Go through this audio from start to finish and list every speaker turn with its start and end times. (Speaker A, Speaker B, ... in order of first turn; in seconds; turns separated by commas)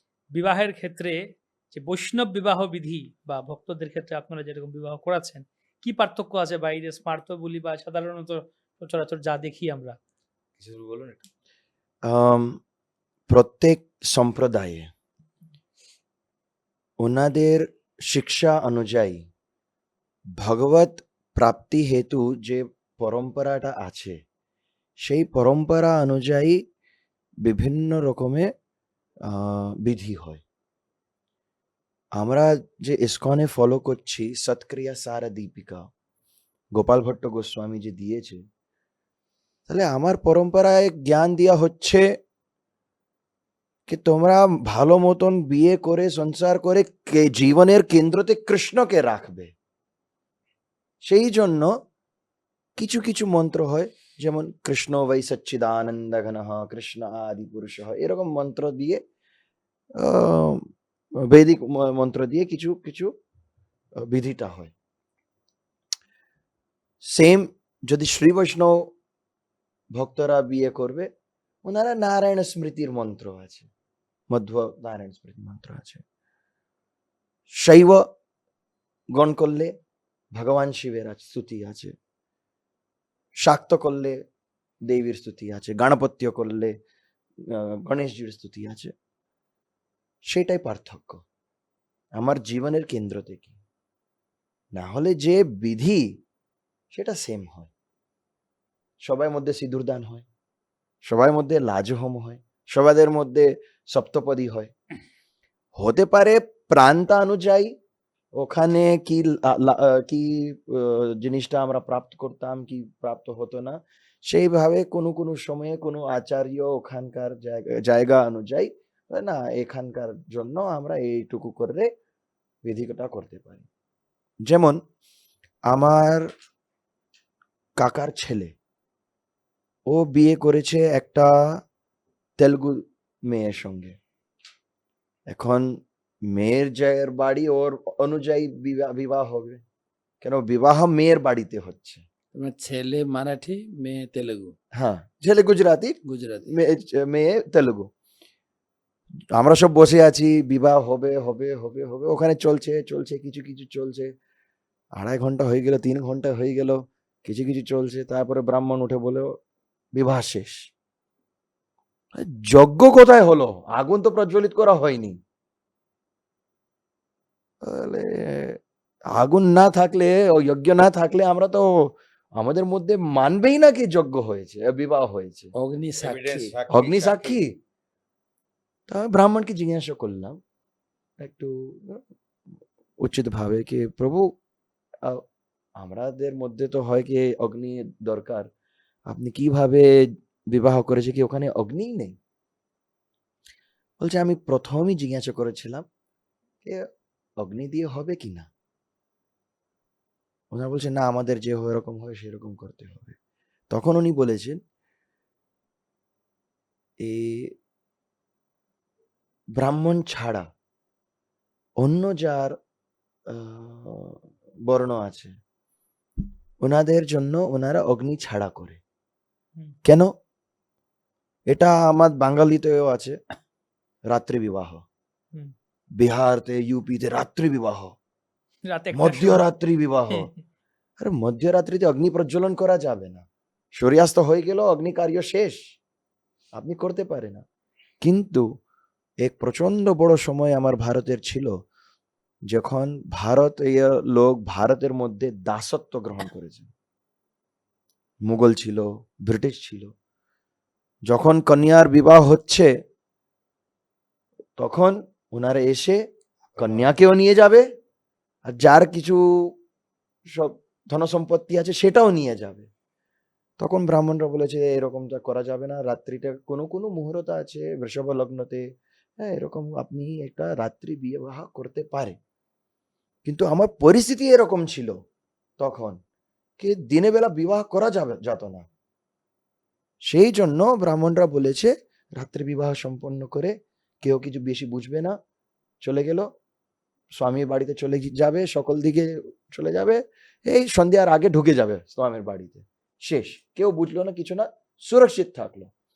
Speaker A: 0.3-1.2, Speaker A: 1.7-10.0, Speaker B: 10.6-11.3, Speaker C: 12.1-12.6, Speaker C: 13.3-14.9, Speaker C: 17.0-19.3, Speaker C: 20.4-24.1, Speaker C: 25.1-26.6, Speaker C: 27.5-28.5, Speaker C: 29.3-30.4, Speaker C: 32.2-35.9, Speaker C: 36.8-38.4, Speaker C: 39.7-42.1, Speaker C: 43.9-49.5, Speaker C: 51.0-51.7, Speaker C: 52.8-59.0, Speaker C: 60.0-60.6, Speaker C: 61.2-63.1, Speaker C: 64.0-64.7, Speaker C: 67.1-68.8, Speaker C: 70.0-71.1, Speaker C: 71.7-73.7, Speaker C: 74.3-76.0, Speaker C: 77.6-78.0, Speaker C: 79.2-79.7, Speaker C: 80.4-81.9, Speaker C: 83.4-84.2, Speaker C: 84.9-86.7, Speaker C: 87.5-88.9, Speaker C: 90.3-91.2, Speaker C: 92.2-93.6, Speaker C: 94.8-96.1, Speaker C: 96.9-97.7, Speaker C: 99.0-100.3, Speaker C: 101.0-104.7, Speaker C: 105.8-107.7, Speaker C: 108.4-121.9, Speaker C: 122.7-123.7, Speaker C: 124.5-124.8, Speaker C: 125.7-126.3, Speaker C: 127.8-128.5, Speaker C: 129.9-131.3, Speaker C: 132.4-133.9, Speaker C: 135.3-135.8, Speaker C: 136.3-139.6, Speaker C: 140.2-142.0, Speaker D: 142.3-144.6, Speaker C: 144.8-147.9, Speaker D: 146.0-146.5, Speaker C: 149.3-154.1, Speaker C: 154.9-159.3, Speaker C: 160.0-160.6, Speaker C: 162.2-165.2, Speaker C: 167.6-168.6, Speaker C: 169.1-171.7, Speaker C: 172.4-175.5, Speaker D: 175.6-176.5, Speaker B: 176.0-177.4, Speaker C: 176.7-177.5, Speaker C: 178.9-180.4, Speaker C: 181.2-182.0, Speaker C: 183.0-184.3, Speaker C: 185.8-188.5, Speaker C: 189.1-189.9, Speaker C: 190.5-192.2, Speaker C: 194.0-195.9, Speaker C: 197.4-198.5, Speaker C: 200.5-203.2, Speaker C: 203.7-204.6, Speaker C: 207.0-207.5, Speaker C: 209.6-210.5, Speaker C: 211.8-212.5, Speaker C: 213.3-215.4, Speaker C: 216.6-218.8, Speaker C: 219.8-220.1, Speaker C: 221.5-223.2, Speaker C: 224.1-224.8, Speaker C: 226.0-227.9, Speaker A: 228.7-229.5, Speaker C: 228.9-230.3, Speaker C: 231.0-235.6, Speaker C: 236.6-237.4, Speaker C: 238.0-238.4, Speaker C: 239.2-241.6, Speaker C: 242.5-246.7, Speaker C: 248.3-249.9, Speaker C: 251.1-252.7, Speaker C: 254.6-256.0, Speaker B: 256.5-256.9, Speaker C: 256.6-257.6, Speaker C: 258.5-259.2, Speaker C: 260.3-262.7, Speaker C: 263.6-268.6, Speaker C: 269.2-272.2, Speaker C: 273.3-275.0, Speaker C: 275.6-276.0, Speaker C: 276.6-278.7, Speaker C: 280.1-285.1, Speaker C: 285.8-286.3, Speaker C: 287.2-295.7